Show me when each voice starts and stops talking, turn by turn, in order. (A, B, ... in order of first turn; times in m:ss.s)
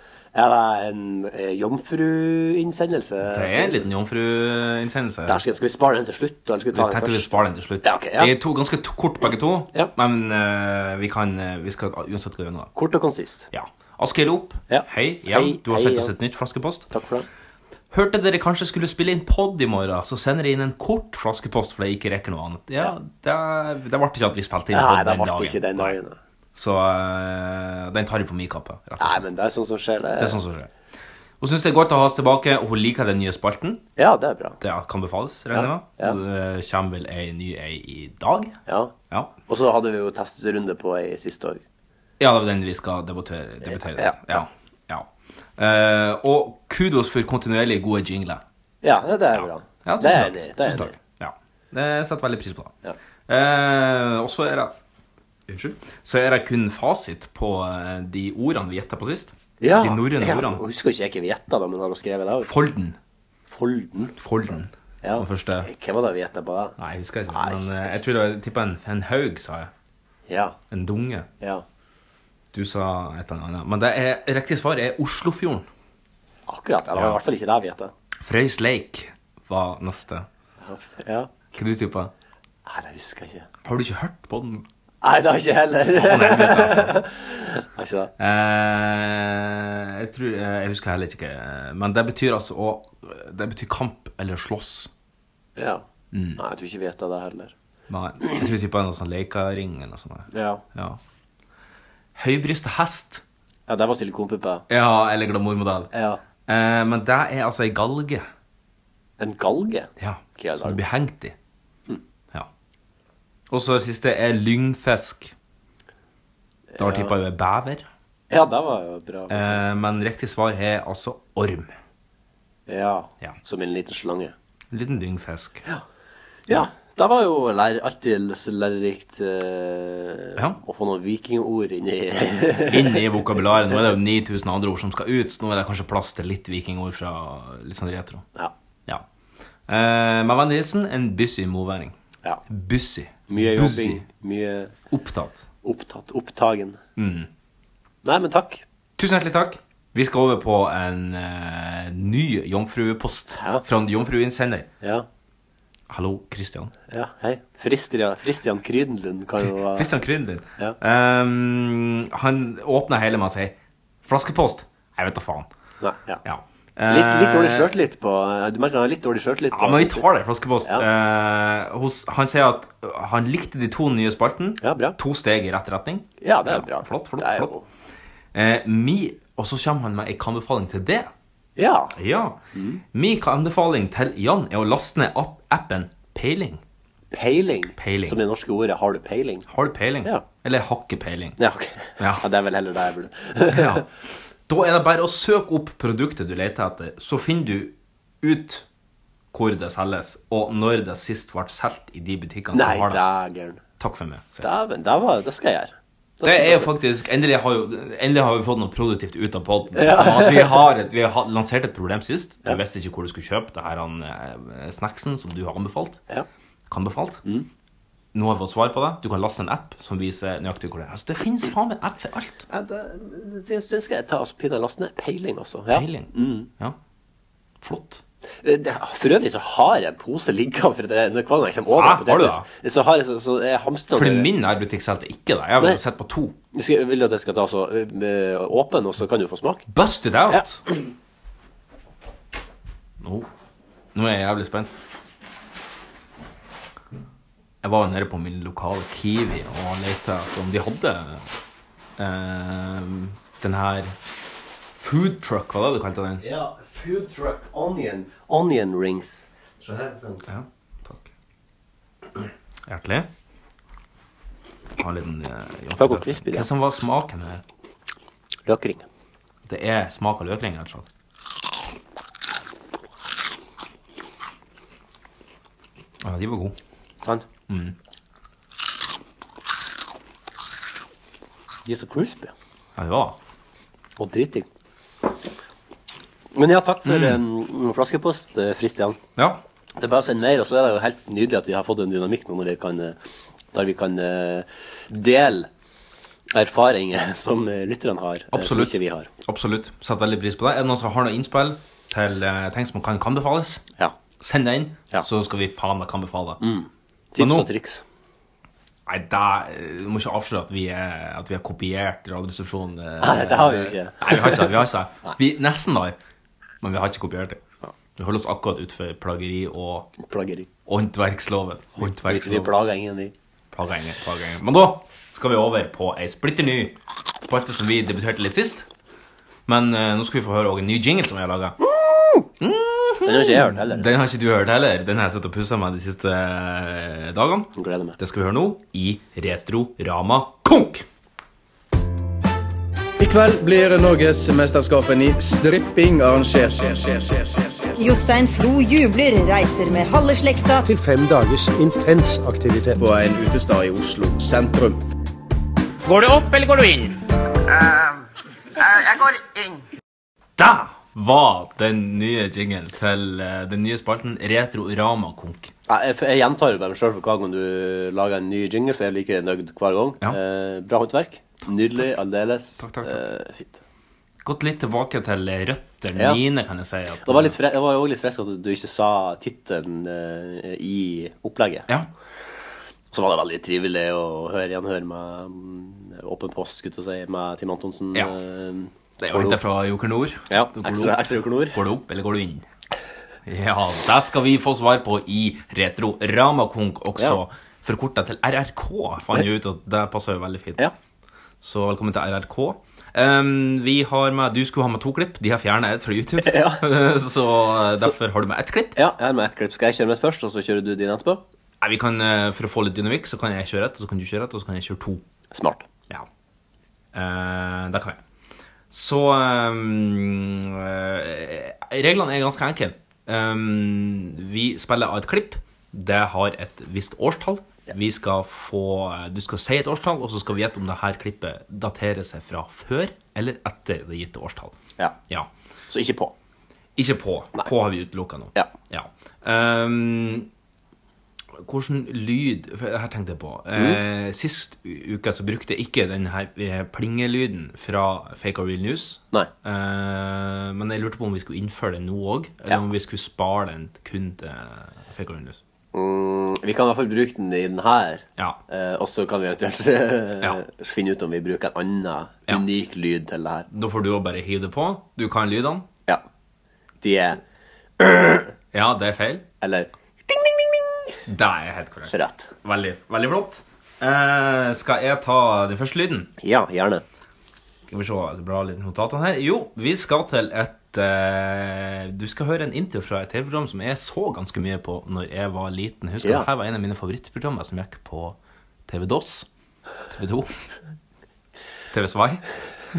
0:00.3-0:03.8 A
0:03.3-0:05.4 B
0:05.3-0:07.3 A
0:06.7-0:12.7 B
0:07.8-0:08.3 A
0:12.8-0:13.5 A
0:13.5-0:16.9 B
0:14.7-0:16.1 A
0:16.9-0:17.3 A
0:17.9-0:26.0 B
0:24.7-0:26.2 A
0:26.6-0:29.2 B
0:29.0-0:30.4 A
0:30.2-0:30.7 B
0:31.4-0:33.8 B
0:34.0-0:34.6 A
0:34.6-0:38.6 B
0:35.5-0:36.2 A
0:38.7-0:39.0 A
0:39.5-0:41.6 A
0:42.2-0:48.4 B
0:43.7-0:44.4 A
0:48.8-0:50.9 A
0:49.8-0:52.8 B
0:53.3-0:54.7 B
0:55.5-1:00.6 B
0:59.6-1:02.5 A
1:02.4-1:03.0 B
1:03.5-1:04.2 A
1:04.2-1:05.7 B
1:05.0-1:06.8 A
1:06.8-1:09.7 B
1:07.3-1:08.0 A
1:10.3-1:10.6 A
1:10.7-1:11.3 B
1:12.5-1:15.7 B
1:16.5-1:17.9 A
1:17.0-1:17.2 B
1:18.2-1:20.3 B
1:20.6-1:21.3 A
1:21.5-1:22.1 B
1:22.7-1:23.5 A
1:23.6-1:24.7 B
1:25.0-1:28.1 A
1:25.9-1:27.0 B
1:28.2-1:34.9 B
1:35.6-1:35.8 A
1:36.1-1:36.4 B
1:36.4-1:37.5 A
1:37.9-1:41.0 B
1:40.3-1:40.6 A
1:42.2-1:43.2 B
1:43.7-1:44.6 A
1:44.7-1:45.9 B
1:45.9-1:46.2 A
1:46.5-1:48.3 B
1:49.2-1:50.8 A
1:50.0-1:51.4 B
1:53.5-1:55.3 B
1:56.7-1:57.1 A
1:56.8-1:57.9 B
1:58.3-1:59.6 A
1:59.3-2:01.7 B
2:02.7-2:04.3 A
2:04.7-2:05.7 B
2:06.5-2:13.0 A
2:12.7-2:18.3 B
2:19.7-2:22.0 B
2:22.5-2:24.1 B
2:23.3-2:24.8 A
2:24.9-2:25.4 B
2:25.6-2:26.8 A
2:27.0-2:27.3 B
2:28.0-2:28.6 A
2:29.0-2:34.7 B
2:33.3-2:33.6 A
2:34.8-2:35.1 A
2:35.9-2:36.7 B
2:36.9-2:39.9 A
2:39.8-2:45.5 B
2:45.8-2:46.2 A
2:46.2-2:47.7 B
2:46.9-2:50.1 A
2:49.5-2:57.5 B
2:54.6-2:55.0 A
2:56.2-2:57.6 A
2:58.3-3:01.1 B
3:01.6-3:01.9 A
3:02.0-3:02.4 B
3:02.5-3:02.8 A
3:02.9-3:06.6 B
3:07.1-3:09.4 A
3:07.8-3:08.2 B
3:09.5-3:11.4 B
3:11.4-3:13.8 A
3:12.0-3:12.3 B
3:13.5-3:13.9 B
3:14.5-3:18.7 B
3:19.3-3:23.0 B
3:22.5-3:23.6 A
3:23.8-3:24.5 B
3:24.4-3:26.7 A
3:26.2-3:36.0 B
3:29.8-3:30.6 A
3:36.7-3:37.2 B
3:38.1-3:42.5 B
3:42.5-3:46.5 A
3:45.7-3:46.8 B
3:47.6-3:48.0 B
3:48.4-3:54.3 A
3:51.7-3:52.5 B
3:53.9-3:56.4 B
3:56.5-3:59.7 A
3:59.7-4:00.6 B
4:00.3-4:00.8 A
4:03.0-4:03.3 B
4:03.9-4:04.7 B
4:07.6-4:11.3 B
4:12.0-4:14.0 B
4:14.8-4:16.2 B
4:16.2-4:20.3 A
4:20.3-4:21.1 B
4:22.7-4:23.1 B
4:24.8-4:27.4 B
4:25.8-4:26.5 A
4:28.5-4:28.8 A
4:29.5-4:30.9 B
4:36.0-4:36.6 B
4:37.0-4:37.3 A
4:37.5-4:37.8 B
4:41.7-4:42.3 A
4:42.8-4:43.2 B
4:44.0-4:44.5 A
4:46.3-4:49.0 A
4:46.8-4:47.2 B
4:49.2-4:49.4 B
4:49.8-4:53.0 A
4:53.5-4:55.5 A
4:56.3-4:59.1 A
4:58.3-5:03.6 B
5:04.2-5:06.4 B
5:06.4-5:07.8 A
5:07.2-5:07.5 B
5:08.9-5:16.0 B
5:13.0-5:15.1 A
5:16.6-5:17.4 B
5:18.0-5:19.9 B
5:20.0-5:20.5 A
5:20.7-5:22.5 B
5:21.8-5:23.1 A
5:23.5-5:28.7 B
5:29.5-5:31.6 B
5:31.7-5:32.3 A
5:32.4-5:40.9 B
5:33.0-5:33.9 A
5:37.6-5:38.0 A
5:43.0-5:47.8 C
5:47.8-5:50.7 D
5:50.6-5:52.8 E
5:52.8-5:54.8 C
6:00.4-6:05.5 B
6:05.7-6:13.6 A
6:11.4-6:11.9 B
6:12.6-6:13.0 B
6:14.2-6:17.4 B
6:16.0-6:16.2 A
6:17.0-6:21.7 A
6:22.9-6:29.4 A
6:29.0-6:32.5 B
6:30.3-6:31.6 A
6:33.2-6:40.6 B
6:41.4-6:48.8 B
6:46.2-6:46.6 A
6:48.8-6:51.2 A
6:51.6-6:55.0 B
6:55.3-6:55.7 A
6:56.9-6:58.0 B
6:58.7-7:14.6 B
7:15.7-7:16.2 A
7:16.8-7:20.3 B
7:21.4-7:35.4 B
7:35.7-7:43.5 A
7:43.5-7:45.7 B
7:46.8-7:47.2 A
7:47.8-7:48.3 A
7:48.5-7:49.2 B
7:49.4-7:50.9 A
7:51.1-7:56.1 B
7:51.9-7:52.3 A
7:56.2-7:56.8 A
7:57.7-8:09.3 B
8:06.0-8:06.3 A
8:09.9-8:10.3 B
8:11.7-8:12.2 B